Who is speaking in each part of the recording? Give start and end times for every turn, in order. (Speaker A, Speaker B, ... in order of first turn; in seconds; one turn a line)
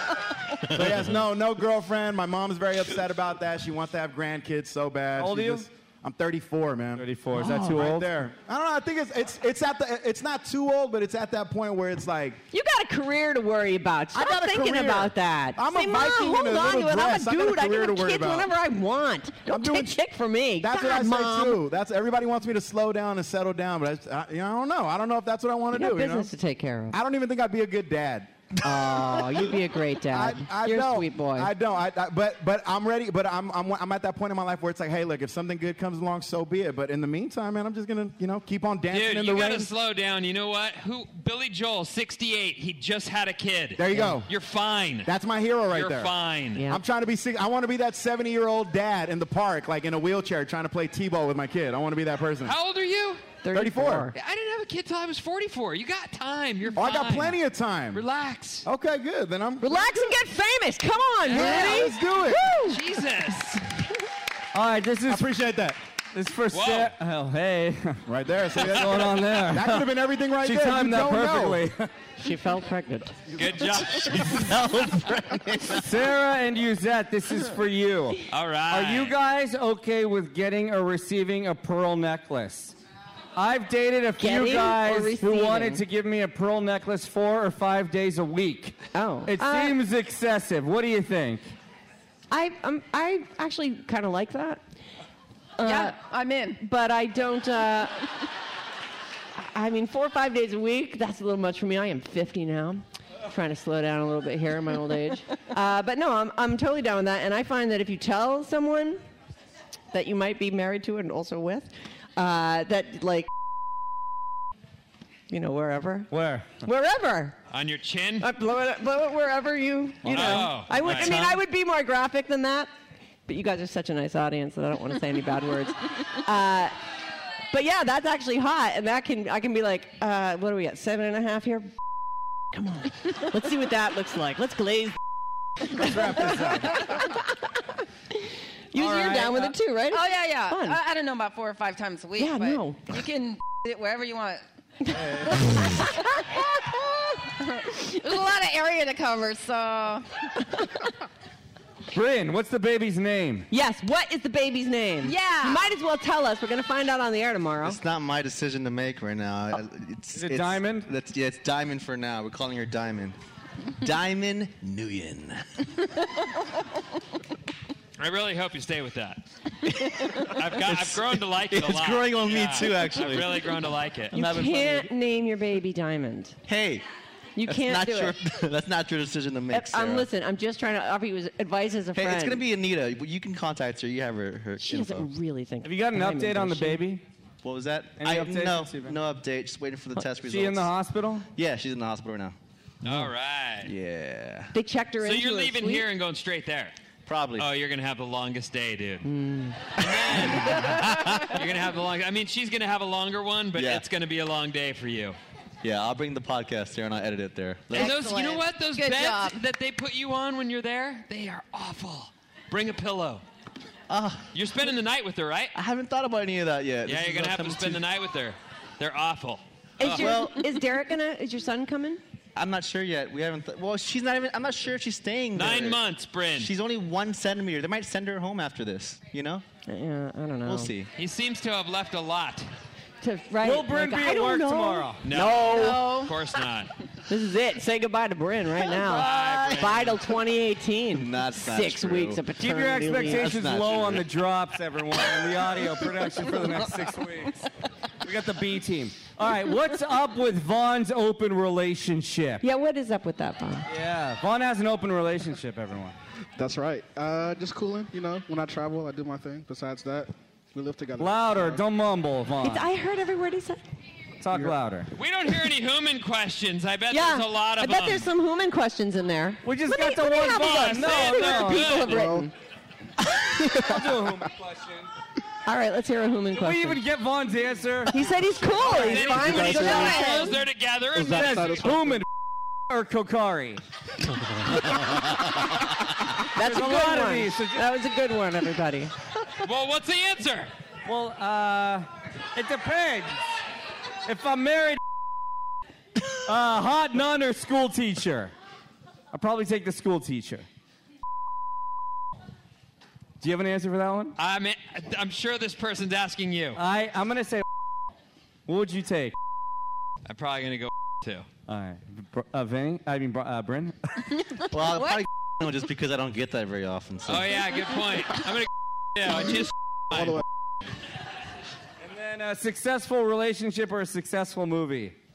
Speaker A: 0.7-12.4
Speaker B: 5.2-5.7
Speaker B: 7.0-8.1
Speaker C: 12.5-21.6
Speaker A: 14.1-18.5
Speaker A: 19.5-20.0
Speaker A: 20.6-26.3
Speaker C: 25.7-27.0
Speaker A: 26.9-28.3
Speaker C: 28.6-31.5
Speaker A: 30.1-39.7
Speaker D: 38.9-45.1
Speaker A: 43.8-44.3
Speaker C: 43.9-44.2
Speaker A: 45.0-52.5
Speaker D: 45.7-46.7
Speaker C: 46.5-46.8
Speaker D: 52.4-53.4
Speaker C: 53.4-54.1
Speaker A: 53.5-54.1
Speaker D: 54.1-57.4
Speaker A: 56.7-58.0
Speaker D: 57.9-58.6
Speaker A: 58.6-60.1
Speaker C: 59.6-62.8
Speaker D: 61.2-61.9
Speaker A: 61.3-62.5
Speaker D: 62.6-63.6
Speaker B: 64.5-65.3
Speaker A: 65.1-65.8
Speaker B: 66.1-68.0
Speaker D: 66.5-66.9
Speaker A: 68.1-71.6
Speaker B: 68.6-69.9
Speaker B: 70.4-71.9
Speaker C: 72.2-73.4
Speaker D: 73.3-74.6
Speaker E: 74.3-75.9
Speaker B: 75.7-82.8
Speaker D: 78.3-79.2
Speaker B: 83.3-91.5
Speaker C: 84.2-85.8
Speaker C: 88.9-89.8
Speaker C: 92.3-94.6
Speaker C: 95.6-96.0
Speaker F: 95.6-96.6
Speaker C: 96.6-98.0
Speaker C: 99.4-109.0
Speaker C: 109.9-113.3
Speaker C: 115.3-116.1
Speaker B: 116.1-116.6
Speaker C: 116.6-117.3
Speaker D: 117.5-118.3
Speaker C: 118.2-122.7
Speaker D: 120.0-121.4
Speaker C: 123.3-126.7
Speaker C: 127.5-131.7
Speaker C: 132.5-135.0
Speaker C: 135.7-137.2
Speaker A: 135.7-136.9
Speaker C: 138.7-140.8
Speaker B: 138.8-139.5
Speaker F: 139.9-144.4
Speaker C: 142.2-142.9
Speaker C: 144.9-146.4
Speaker F: 147.6-150.1
Speaker B: 151.9-153.5
Speaker C: 153.5-157.8
Speaker F: 155.0-155.6
Speaker E: 157.6-163.2
Speaker B: 160.2-160.9
Speaker E: 163.8-165.4
Speaker D: 168.0-169.2
Speaker E: 169.7-174.9
Speaker D: 170.3-174.2
Speaker C: 174.1-176.4
Speaker E: 176.5-176.8
Speaker C: 177.3-178.2
Speaker E: 177.4-180.1
Speaker C: 179.5-182.4
Speaker E: 181.9-185.1
Speaker C: 184.6-186.8
Speaker B: 185.6-187.0
Speaker E: 187.4-190.7
Speaker B: 188.0-189.0
Speaker B: 190.2-191.3
Speaker E: 191.3-192.3
Speaker D: 192.8-193.7
Speaker E: 193.6-194.5
Speaker C: 194.5-195.9
Speaker D: 195.0-196.7
Speaker E: 197.1-197.5
Speaker D: 197.4-199.1
Speaker C: 199.0-199.7
Speaker D: 199.8-205.2
Speaker C: 200.3-200.6
Speaker E: 203.5-203.8
Speaker E: 205.6-208.1
Speaker D: 207.7-213.2
Speaker F: 207.7-209.4
Speaker E: 213.9-214.3
Speaker D: 214.3-215.5
Speaker E: 215.5-217.8
Speaker D: 216.8-220.2
Speaker C: 219.8-222.0
Speaker E: 219.8-220.5
Speaker E: 222.3-229.4
Speaker D: 225.3-226.5
Speaker C: 229.7-230.7
Speaker E: 230.4-230.9
Speaker D: 230.9-232.5
Speaker C: 233.0-235.9
Speaker B: 233.4-235.0
Speaker D: 235.0-236.7
Speaker F: 235.4-236.1
Speaker C: 237.1-243.3
Speaker E: 238.7-239.8
Speaker D: 238.9-240.0
Speaker E: 240.9-242.3
Speaker B: 242.4-247.4
Speaker E: 243.0-244.1
Speaker B: 248.0-252.4
Speaker C: 252.4-253.7
Speaker B: 253.7-255.9
Speaker G: 256.4-261.6
Speaker B: 261.0-262.7
Speaker C: 262.4-263.6
Speaker B: 264.2-264.9
Speaker D: 264.9-268.1
Speaker C: 266.9-272.3
Speaker B: 269.4-271.9
Speaker D: 270.5-272.2
Speaker G: 271.9-272.3
Speaker B: 273.4-274.9
Speaker C: 275.4-276.8
Speaker B: 276.3-278.1
Speaker C: 277.9-280.4
Speaker B: 278.6-279.6
Speaker D: 278.7-281.8
Speaker G: 279.2-280.0
Speaker G: 280.9-282.0
Speaker B: 281.0-282.1
Speaker B: 282.7-283.6
Speaker C: 286.3-288.9
Speaker B: 286.4-287.7
Speaker D: 289.4-290.5
Speaker B: 290.9-293.2
Speaker B: 294.1-294.8
Speaker B: 296.2-298.3
Speaker B: 299.1-300.4
Speaker B: 303.2-304.2
Speaker D: 304.1-306.6
Speaker B: 306.5-307.4
Speaker B: 308.5-309.1
Speaker D: 310.1-311.3
Speaker B: 311.5-313.7
Speaker E: 314.5-317.4
Speaker D: 317.1-320.2
Speaker G: 319.9-320.2
Speaker B: 321.8-324.9